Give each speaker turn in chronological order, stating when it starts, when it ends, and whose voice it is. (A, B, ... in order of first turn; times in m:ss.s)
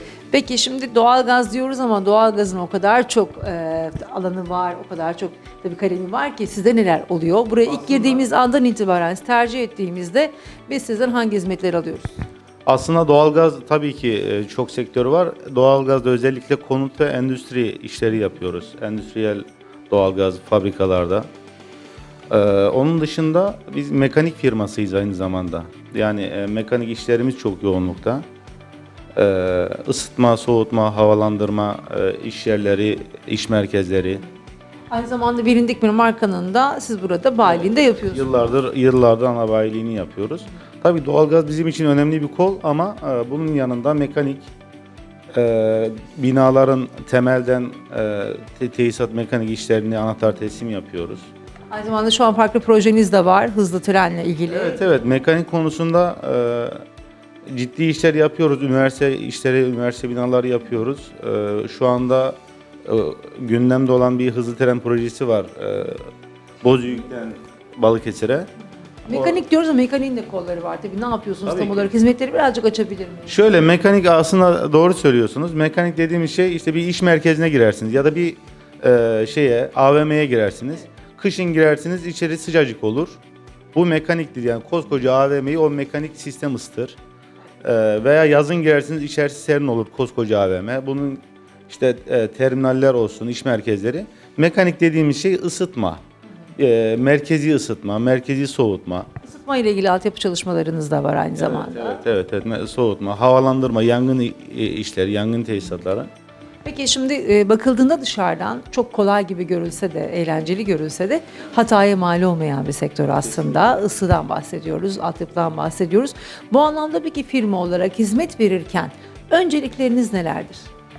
0:00.3-0:12.2 A
0:07.7-0:08.2 B
0:12.6-0:21.3 B
0:22.3-0:28.2 B
0:29.2-0:34.2 B
0:34.9-0:38.4 A
0:37.4-0:44.5 B
0:45.3-0:51.3 B
0:51.7-0:54.8 A
0:54.5-0:56.8 B
0:57.4-1:06.1 B
1:06.6-1:08.5 B
1:09.0-1:13.3 A
1:09.1-1:09.4 B
1:11.4-1:11.9 B
1:13.3-1:23.2 B
1:23.7-1:27.0 B
1:27.6-1:36.0 B
1:36.6-1:39.1 B
1:39.2-1:42.0 A
1:41.3-1:46.1 B
1:46.6-2:00.7 A
1:53.2-1:53.8 B